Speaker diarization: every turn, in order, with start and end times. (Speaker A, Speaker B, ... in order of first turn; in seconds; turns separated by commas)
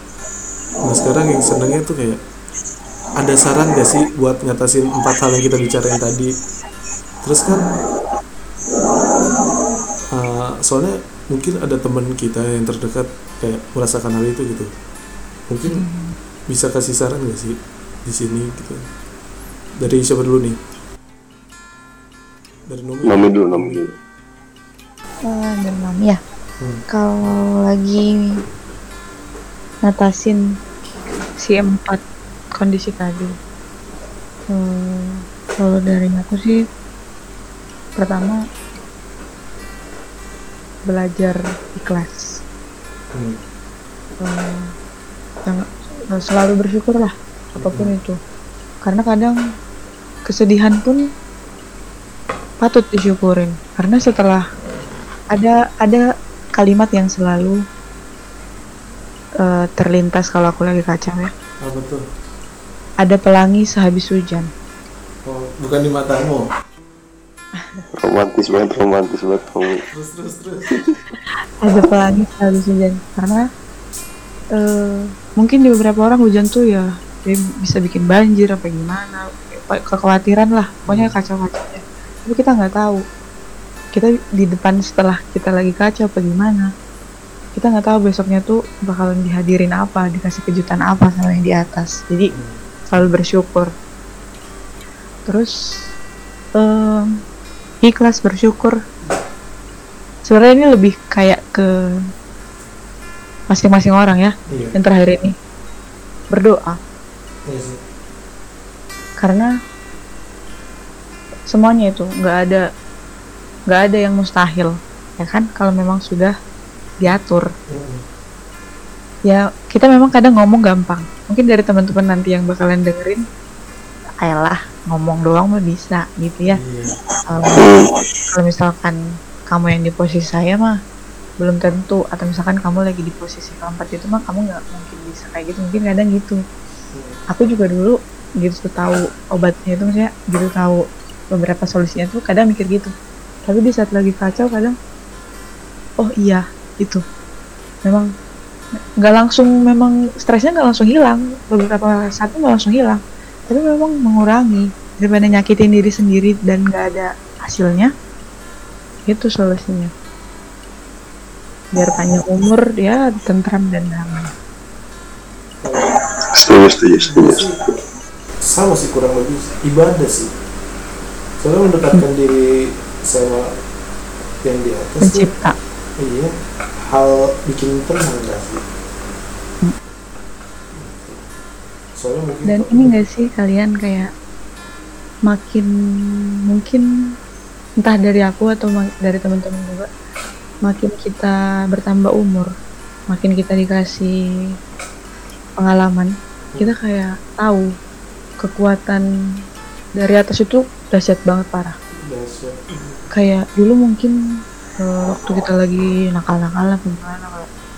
Speaker A: 0.8-2.2, Speaker A: 3.2-6.3, Speaker A: 7.2-7.7, Speaker B: 7.5-7.8, Speaker A: 10.1-14.7, Speaker A: 15.5-15.8, Speaker B: 15.7-16.2, Speaker A: 16.5-18.8, Speaker A: 19.8-20.6, Speaker A: 22.7-23.8, Speaker C: 23.1-23.9, Speaker B: 25.3-26.2, Speaker B: 26.9-28.1, Speaker B: 29.8-30.4, Speaker B: 31.4-32.0, Speaker B: 32.6-33.4, Speaker B: 34.5-36.6, Speaker B: 38.0-38.4, Speaker B: 40.9-42.4, Speaker A: 43.1-43.4, Speaker B: 44.2-44.7, Speaker B: 45.5-48.2, Speaker A: 47.6-47.9, Speaker B: 48.8-49.4, Speaker B: 50.3-51.0, Speaker B: 52.6-54.4, Speaker B: 55.3-56.0, Speaker B: 56.6-57.6, Speaker B: 59.4-61.3, Speaker A: 61.6-62.0, Speaker B: 63.0-64.5, Speaker A: 65.3-66.4, Speaker B: 67.6-67.9, Speaker C: 67.9-69.8, Speaker A: 69.9-70.8, Speaker B: 71.6-73.4, Speaker B: 74.6-83.0, Speaker A: 80.9-81.2, Speaker B: 83.9-86.7, Speaker B: 87.6-92.3, Speaker A: 92.3-92.6, Speaker B: 92.9-93.7, Speaker B: 95.3-95.5, Speaker B: 96.6-97.1, Speaker B: 97.8-98.8, Speaker B: 100.3-101.7, Speaker B: 103.5-105.3, Speaker A: 104.5-104.8, Speaker B: 106.3-106.8, Speaker A: 107.5-107.8, Speaker B: 109.2-109.5, Speaker B: 111.5-112.6, Speaker B: 113.7-116.3, Speaker B: 117.0-117.5, Speaker A: 117.7-118.0, Speaker B: 119.3-123.2, Speaker B: 124.2-126.6, Speaker A: 126.5-127.0, Speaker B: 127.3-127.6, Speaker C: 127.6-128.0, Speaker B: 128.3-129.0, Speaker B: 129.5-130.8, Speaker B: 131.4-136.4, Speaker A: 136.9-137.2, Speaker B: 137.3-142.9, Speaker B: 143.5-144.8, Speaker B: 146.0-147.0, Speaker B: 149.0-157.9, Speaker B: 159.1-159.9, Speaker B: 161.7-164.3, Speaker A: 165.6-165.9, Speaker C: 166.3-167.7, Speaker A: 167.1-167.6, Speaker A: 168.4-170.3, Speaker A: 171.4-173.5, Speaker A: 174.4-175.3, Speaker B: 175.0-175.6, Speaker A: 176.0-176.3, Speaker A: 176.9-178.6, Speaker A: 180.7-181.2, Speaker A: 182.0-182.8, Speaker B: 182.5-184.1, Speaker B: 185.3-185.7, Speaker B: 186.5-186.9, Speaker B: 187.8-189.9, Speaker B: 190.7-192.5, Speaker B: 193.1-194.1, Speaker B: 195.6-197.7, Speaker B: 198.4-199.1, Speaker B: 200.0-201.8, Speaker A: 202.0-203.0, Speaker B: 203.1-204.2, Speaker B: 204.8-207.5